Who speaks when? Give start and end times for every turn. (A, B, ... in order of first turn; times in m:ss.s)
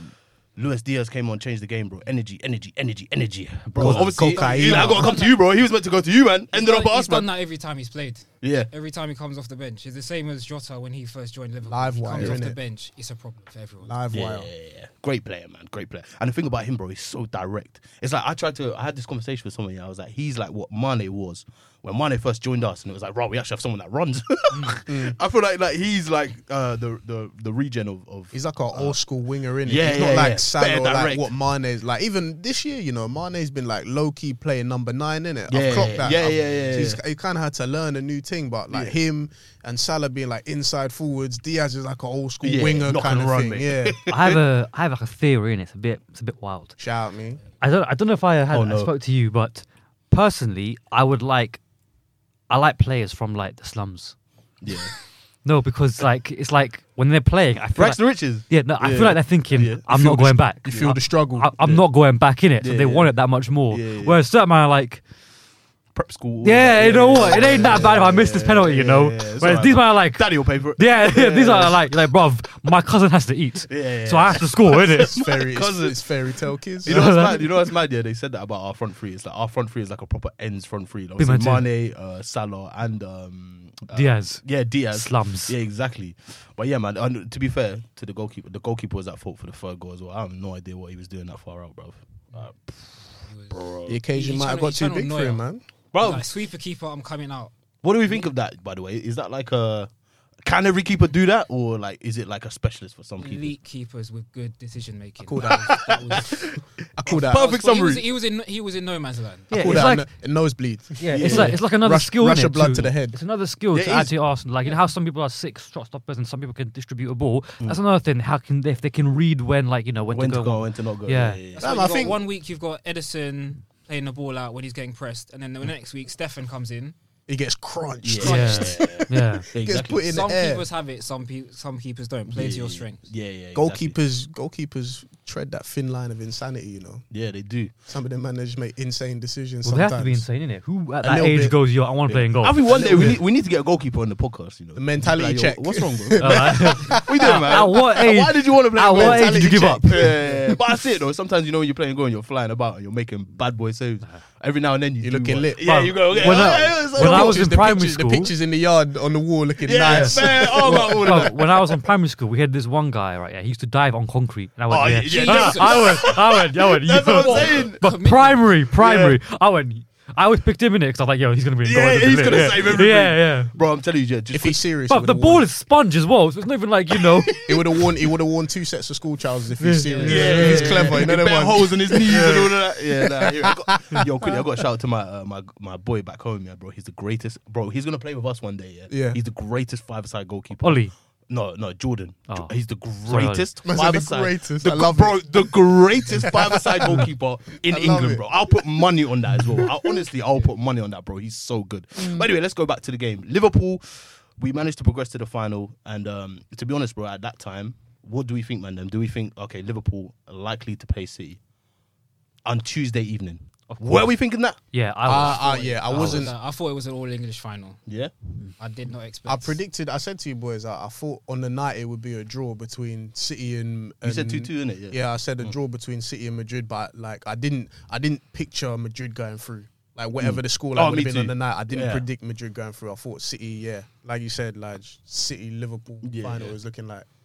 0:00.6-0:07.3 A
0:03.7-0:04.2 B
0:03.8-0:05.1 C
0:04.3-0:05.4 D
0:06.5-0:13.9 D
0:08.4-0:08.7 A
0:11.6-0:12.6 C
0:13.8-0:14.5 C
0:14.1-0:29.0 A
0:24.8-0:25.1 C
0:28.3-0:44.0 C
0:29.6-0:31.3 A
0:35.5-0:37.0 A
0:38.7-0:39.0 A
0:42.4-0:44.4 A
0:44.1-0:46.8 B
0:46.8-0:47.4 C
0:47.6-0:51.6 B
0:48.5-0:48.9 A
0:52.5-0:54.1 B
0:54.6-0:54.9 A
0:55.4-1:05.0 B
0:57.7-1:01.0 A
0:59.9-1:01.5 C
1:02.6-1:03.1 A
1:03.7-1:04.2 A
1:05.9-1:11.8 A
1:06.4-1:15.2 B
1:07.3-1:07.8 C
1:13.7-1:16.0 A
1:14.9-1:17.1 C
1:16.8-1:34.0 A
1:16.8-1:17.5 B
1:21.2-1:21.6 B
1:23.9-1:25.5 B
1:33.2-1:35.4 D
1:33.9-1:35.6 C
1:35.9-1:36.2 A
1:36.0-1:37.5 D
1:37.8-1:39.9 A
1:40.4-1:43.5 A
1:43.2-1:46.5 D
1:45.2-1:47.4 C
1:45.4-1:46.4 A
1:47.0-1:48.0 A
1:47.1-1:49.9 D
1:49.5-1:50.1 B
1:49.5-1:53.2 C
1:51.0-2:01.4 B
1:51.1-1:51.6 A
1:53.7-1:54.1 A
1:53.8-1:54.1 C
2:00.1-2:01.8 A
2:01.5-2:06.9 D
2:01.6-2:02.2 C
2:07.3-2:10.6 C
2:08.0-2:10.2 A
2:08.2-2:08.6 D
2:08.2-2:09.5 B
2:10.1-2:13.0 D
2:12.3-2:14.0 A
2:13.5-2:17.0 C
2:17.1-2:17.7 A
2:17.8-2:20.2 C
2:19.6-2:23.2 B
2:21.0-2:21.6 C
2:22.0-2:37.6 A
2:22.7-2:23.2 C
2:24.8-2:27.8 C
2:26.2-2:30.2 B
2:28.8-2:30.6 C
2:35.0-2:41.3 C
2:35.6-2:38.3 B
2:39.6-2:41.8 A
2:39.9-2:53.5 B
2:44.7-2:47.8 A
2:45.0-2:46.2 D
2:47.1-2:48.5 D
2:48.7-2:49.2 A
2:51.6-2:54.6 A
2:54.3-2:55.5 C
2:54.9-2:57.4 B
2:56.9-2:57.6 A
2:57.4-3:04.1 C
2:59.6-3:01.0 B
2:59.9-3:00.7 D
3:00.0-3:31.4 A
3:08.9-3:09.2 C
3:10.6-3:10.9 B
3:13.0-3:13.5 B
3:13.6-3:15.6 C
3:16.2-3:17.0 C
3:17.6-3:18.6 C
3:32.4-3:34.6 A
3:33.7-3:36.3 B
3:35.0-3:36.3 C
3:35.1-3:37.8 D
3:37.9-3:38.1 A
3:38.6-3:39.6 D
3:39.3-3:57.0 C
3:44.0-3:45.5 A
3:50.2-3:52.0 A
3:56.0-3:56.6 A